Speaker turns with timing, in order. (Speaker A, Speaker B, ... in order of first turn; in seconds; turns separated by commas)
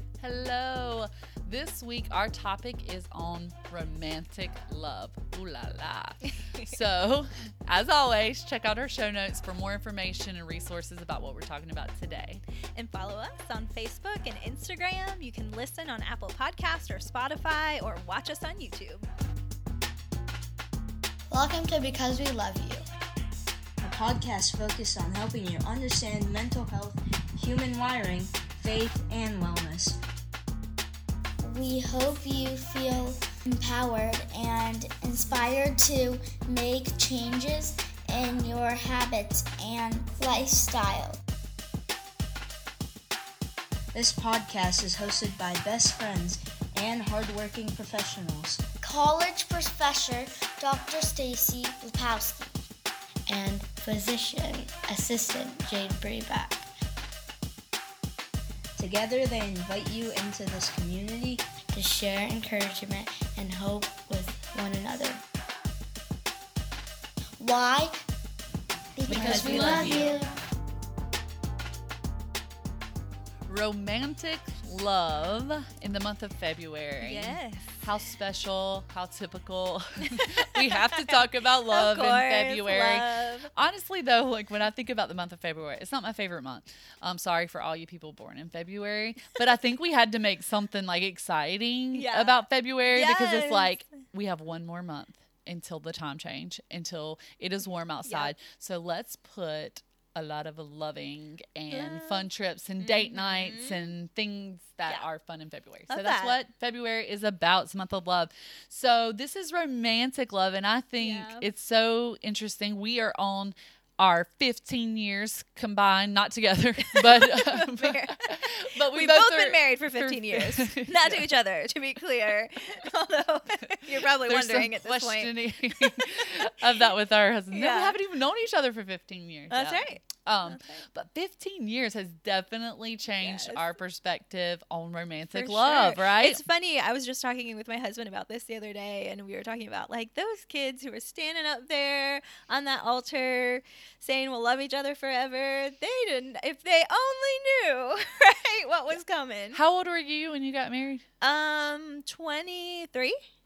Speaker A: 0.2-12.4, Speaker B: 6.2-6.8, Speaker B: 12.8-19.1, Speaker C: 21.3-22.8, Speaker D: 23.8-30.0, Speaker C: 31.4-41.2, Speaker D: 43.9-48.6, Speaker C: 48.8-52.6, Speaker C: 53.3-56.6, Speaker D: 58.8-61.4, Speaker C: 61.7-65.2, Speaker C: 67.4-67.9, Speaker C: 69.0-70.3, Speaker A: 69.1-70.1, Speaker D: 69.1-70.1, Speaker A: 73.5-121.3, Speaker B: 77.0-77.8, Speaker B: 80.0-83.5, Speaker B: 91.9-93.7, Speaker B: 98.0-98.3, Speaker B: 101.7-102.3, Speaker B: 102.8-103.8, Speaker B: 105.9-106.4, Speaker B: 111.0-111.5, Speaker B: 116.8-126.4, Speaker A: 123.9-136.4, Speaker B: 127.5-128.0, Speaker B: 129.5-130.8, Speaker B: 133.2-133.7, Speaker B: 135.3-149.6, Speaker A: 149.5-151.1, Speaker B: 151.2-153.2